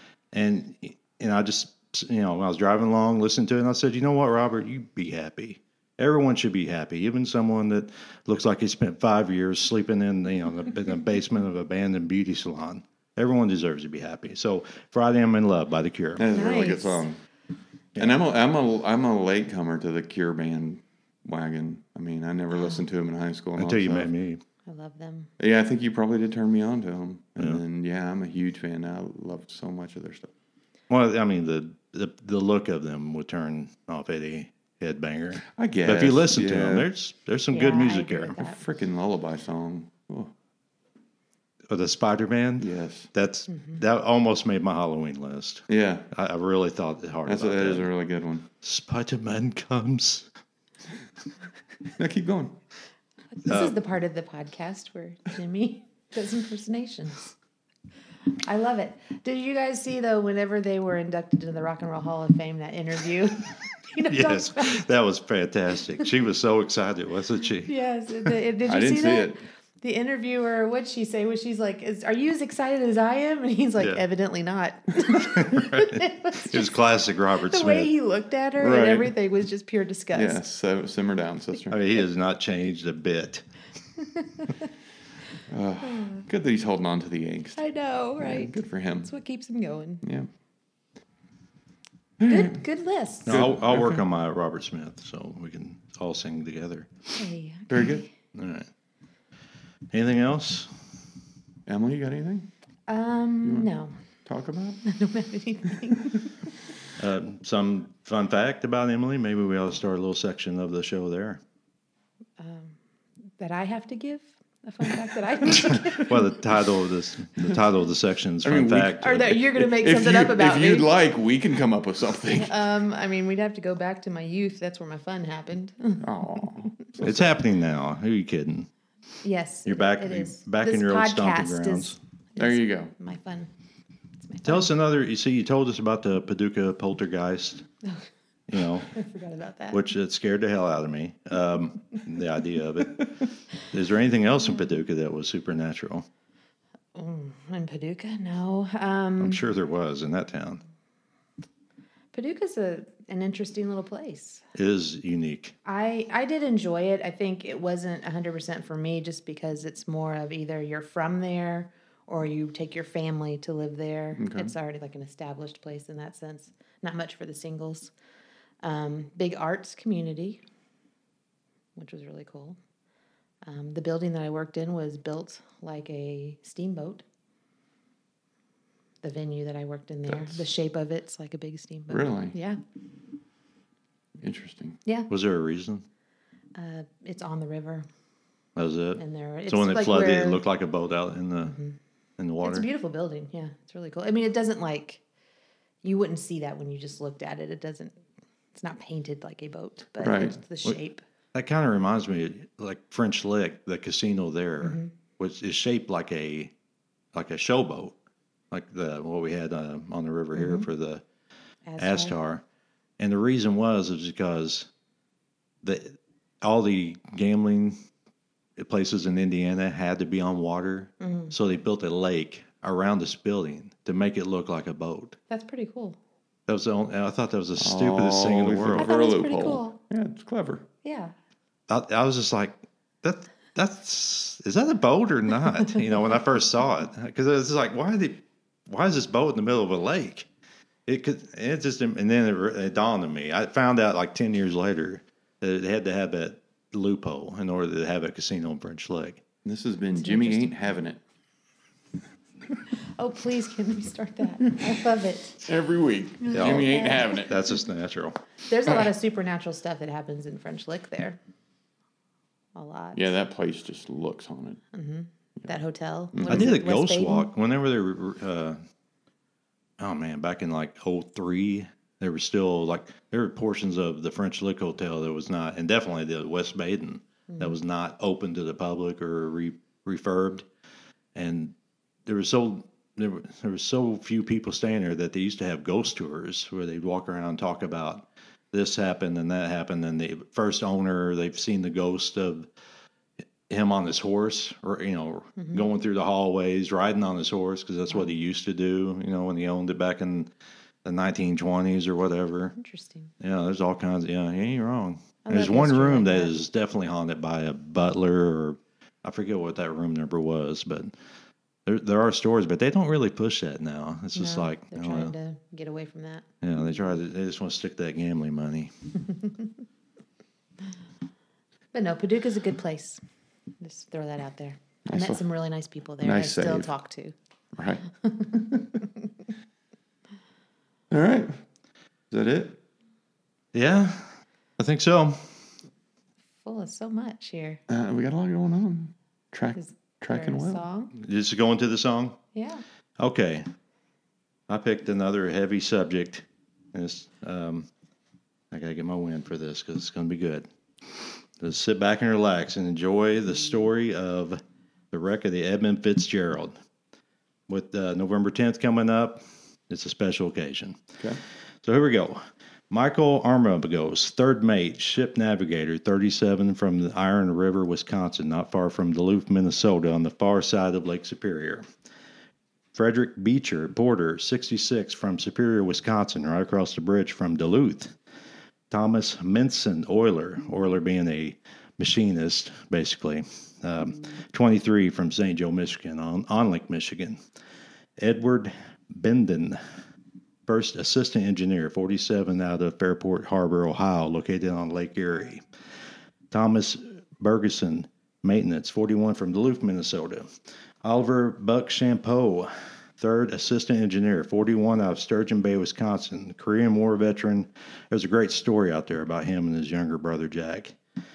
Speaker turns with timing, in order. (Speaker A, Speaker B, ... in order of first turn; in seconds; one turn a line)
Speaker A: 0.3-16.3
Speaker B: 16.2-17.2
Speaker C: 16.3-17.1
Speaker B: 18.0-24.1
Speaker A: 23.6-24.4
Speaker C: 24.7-25.3
Speaker B: 25.4-30.3
Speaker A: 30.9-38.4
Speaker B: 35.5-36.9
Speaker C: 37.5-38.6
Speaker B: 38.4-40.3
Speaker A: 41.7-47.9
Speaker B: 42.6-43.1
Speaker C: 43.5-43.8
Speaker B: 45.7-46.1
Speaker B: 47.3-48.5
Speaker A: 48.6-50.3
Speaker B: 52.0-52.6
Speaker C: 53.4-57.3
Speaker A: 53.5-53.7
Speaker C: 58.4-64.8
Speaker A: 64.1-67.7
Speaker C: 67.7-76.8
Speaker B: 68.7-69.4
Speaker A: 75.1-77.9
Speaker C: 77.4-80.4
Speaker B: 78.6-79.1
Speaker B: 80.1-81.9
Speaker A: 81.7-83.5
Speaker C: 84.0-84.5
Speaker B: 85.5-87.6
Speaker C: 86.0-86.2
Speaker C: 87.6-90.0
Speaker B: 88.2-89.1
Speaker B: 90.0-90.3
Speaker B: 92.2-92.6
Speaker C: 92.2-93.4
Speaker A: 93.3-96.9
Speaker B: 93.3-94.0
Speaker C: 97.2-98.1
Speaker B: 97.7-98.0
Speaker A: 98.3-98.7
Speaker A: 99.9-100.7
Speaker B: 101.7-102.5
Speaker C: 102.9-103.9
Speaker B: 103.4-103.7
Speaker B: 104.2-104.8
Speaker C: 104.8-106.3
Speaker A: 107.0-111.4
Speaker C: 112.4-112.8
Speaker C: 113.4-116.3
Speaker A: 115.5-119.4
Speaker B: 118.4-122.5
Speaker C: 119.0-120.9
Speaker C: 122.3-126.5
Speaker B: 126.0-127.3
Speaker A: 127.0-128.7
Speaker C: 129.2-133.5
Speaker A: 129.7-132.0
Speaker B: 132.4-132.9
Speaker C: 134.2-134.7
Speaker A: 134.4-137.7
Speaker A: 138.5-139.0
Speaker C: 138.9-139.8
Speaker A: 139.7-146.1
Speaker C: 146.9-149.4
Speaker A: 149.2-150.6
Speaker C: 152.1-154.4
Speaker A: 154.6-155.6
Speaker C: 155.7-167.9
Speaker B: 164.2-164.5
Speaker C: 168.6-170.4
Speaker C: 171.8-172.6
Speaker C: 173.4-177.0
Speaker C: 179.0-182.6
Speaker B: 180.1-180.5
Speaker B: 181.9-182.3
Speaker B: 184.2-184.8
Speaker A: 185.1-185.8
Speaker C: 186.6-187.9
Speaker A: 188.6-191.6
Speaker C: 189.0-190.4
Speaker C: 191.4-191.8
Speaker A: 192.2-192.7
Speaker C: 192.4-195.0
Speaker C: 195.8-197.9
Speaker C: 198.6-201.0
Speaker B: 200.0-200.4
Speaker A: 201.3-206.5
Speaker C: 204.6-204.9
Speaker A: 207.1-207.9
Speaker A: 208.5-211.0
Speaker C: 210.3-210.7
Speaker C: 211.7-212.2
Speaker A: 211.8-212.4
Speaker A: 213.0-214.7
Speaker A: 215.6-217.8
Speaker A: 218.6-225.2
Speaker C: 221.0-221.3
Speaker C: 225.3-226.0
Speaker A: 226.5-228.9
Speaker B: 227.6-230.7
Speaker C: 228.8-229.8
Speaker C: 230.8-231.1
Speaker A: 231.7-240.3
Speaker A: 240.9-249.2
Speaker B: 249.4-251.0
Speaker C: 250.0-250.6
Speaker C: 253.0-255.5
Speaker B: 255.4-257.4
Speaker C: 256.2-257.2
Speaker A: 256.3-258.2
Speaker C: 258.5-261.2
Speaker C: 262.6-263.1
Speaker B: 262.9-264.6
Speaker C: 264.7-267.3
Speaker B: 266.1-266.5
Speaker A: 266.3-268.6
Speaker A: 269.8-280.4
Speaker C: 277.3-277.6
Speaker A: 281.1-281.5
Speaker A: 282.1-292.5
Speaker A: 293.5-300.3
Speaker C: 295.4-295.6
Speaker A: 300.9-302.6
Speaker C: 302.6-303.1
Speaker A: 303.2-310.9
Speaker C: 305.2-306.3
Speaker A: 311.7-315.1
Speaker C: 314.1-316.3
Speaker A: 316.4-318.7
Speaker C: 321.7-323.0
Speaker C: 323.6-327.1
Speaker B: 324.9-325.2
Speaker B: 326.0-326.7
Speaker B: 327.6-328.6
Speaker C: 328.0-328.6
Speaker B: 330.9-331.3
Speaker B: 332.1-332.6
Speaker A: 333.5-335.2
Speaker C: 336.4-337.6
Speaker B: 337.7-340.6
Speaker C: 339.6-340.9
Speaker A: 341.0-342.2
Speaker C: 342.3-342.6
Speaker A: 343.0-343.5
Speaker A: 344.5-347.7
Speaker A: 348.5-354.4
Speaker A: 354.9-356.6
Speaker A: 357.5-360.8
Speaker A: 361.6-371.6
Speaker A: 372.7-377.9
Speaker A: 378.7-387.2
Speaker A: 388.0-389.6
Speaker A: 390.5-395.4
Speaker A: 396.3-400.3
Speaker A: 400.8-410.8